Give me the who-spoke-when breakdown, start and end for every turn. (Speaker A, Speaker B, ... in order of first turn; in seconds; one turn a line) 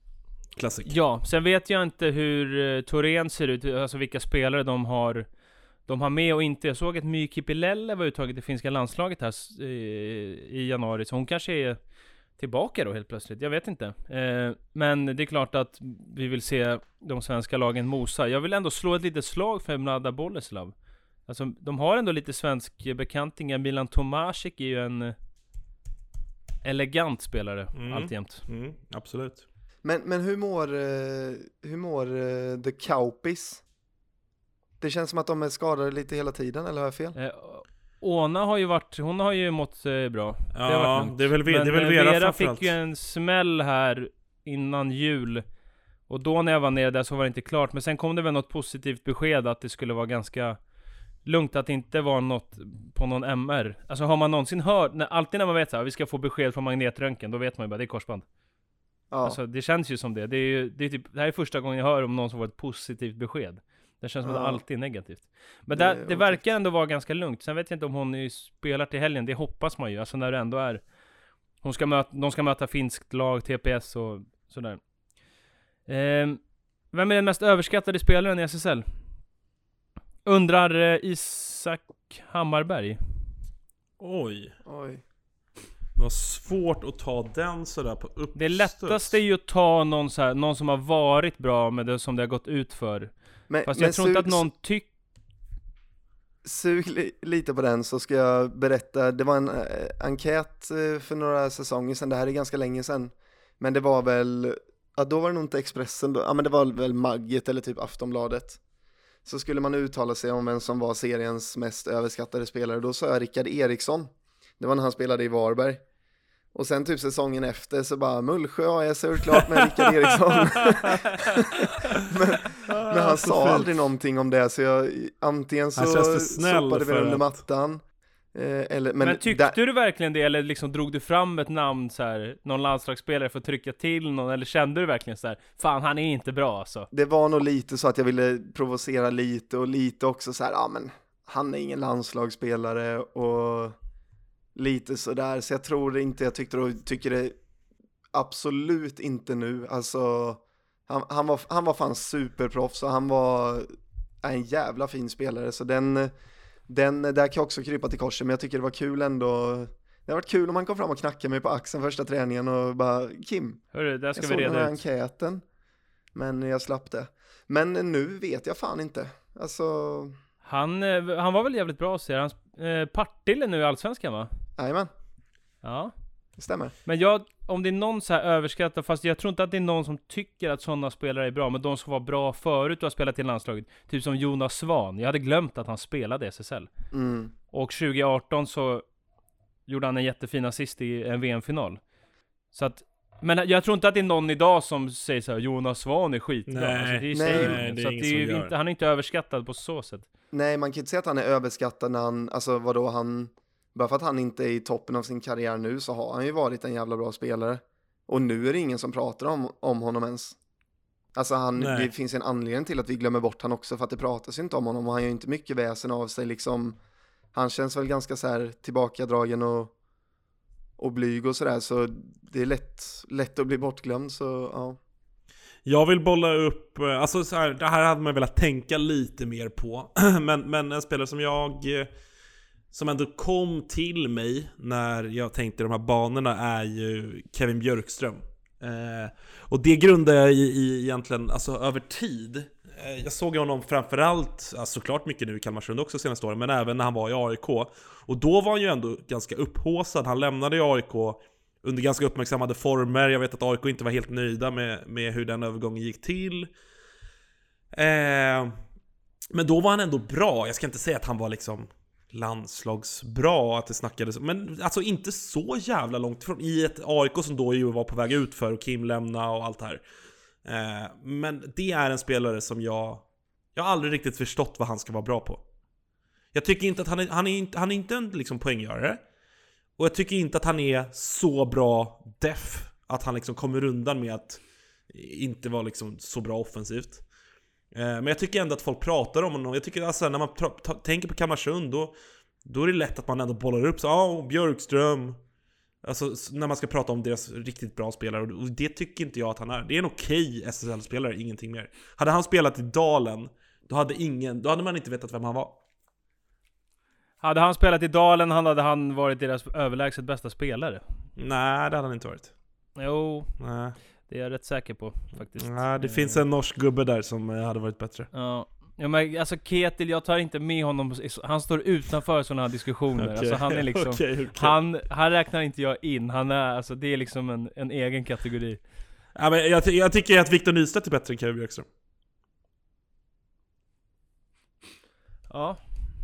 Speaker A: 0.5-0.9
Speaker B: 0.8-5.3
Speaker B: 5.8-11.8
Speaker B: 12.4-20.7
Speaker B: 21.2-25.1
Speaker B: 26.6-28.4
Speaker A: 27.7-29.4
Speaker C: 29.8-33.6
Speaker C: 34.8-37.1
Speaker B: 37.1-45.4
Speaker A: 40.5-42.7
Speaker B: 46.1-50.6
Speaker B: 51.2-58.2
Speaker C: 59.1-59.4
Speaker B: 59.2-70.8
Speaker C: 64.2-64.6
Speaker C: 65.7-66.4
Speaker B: 71.6-74.8
Speaker B: 75.9-76.4
Speaker B: 76.9-78.8
Speaker B: 80.2-83.0
Speaker A: 84.0-84.5
Speaker C: 84.6-85.0
Speaker A: 86.0-89.2
Speaker B: 88.3-93.1
Speaker C: 93.5-94.5
Speaker B: 93.6-94.9
Speaker C: 96.4-108.6
Speaker C: 109.2-115.8
Speaker C: 116.5-127.8
Speaker A: 120.3-121.4
Speaker A: 122.7-123.7
Speaker A: 125.8-127.4
Speaker C: 128.3-129.6
Speaker B: 129.0-136.9
Speaker C: 136.9-143.8
Speaker C: 144.6-147.3
Speaker C: 148.1-156.1
Speaker C: 156.7-163.6
Speaker B: 163.7-164.8
Speaker C: 164.2-165.4
Speaker C: 166.1-170.1
Speaker B: 170.4-174.3
Speaker C: 174.6-174.9
Speaker B: 175.6-175.9
Speaker C: 176.4-176.7
Speaker B: 176.8-186.7
Speaker C: 186.9-187.3
Speaker B: 187.5-188.8
Speaker B: 189.7-191.8
Speaker B: 192.5-200.1
Speaker A: 196.5-198.5
Speaker C: 197.1-197.5
Speaker C: 200.3-210.4
Speaker C: 211.2-216.8
Speaker A: 211.6-211.9
Speaker C: 217.3-219.7
Speaker C: 220.8-224.8
Speaker A: 225.7-231.9
Speaker A: 232.7-256.5
Speaker A: 257.7-258.5
Speaker A: 259.3-269.8
Speaker A: 270.4-275.4
Speaker A: 276.3-279.0
Speaker A: 279.8-287.0
Speaker A: 287.7-291.9
Speaker A: 292.4-295.2
Speaker A: 295.8-305.6
Speaker B: 307.2-310.8
Speaker A: 311.2-312.3
Speaker B: 312.8-313.3
Speaker A: 313.4-313.8
Speaker B: 314.1-316.2
Speaker A: 315.4-318.1
Speaker B: 318.1-328.6
Speaker A: 323.0-324.6
Speaker A: 329.1-331.7
Speaker B: 335.3-335.6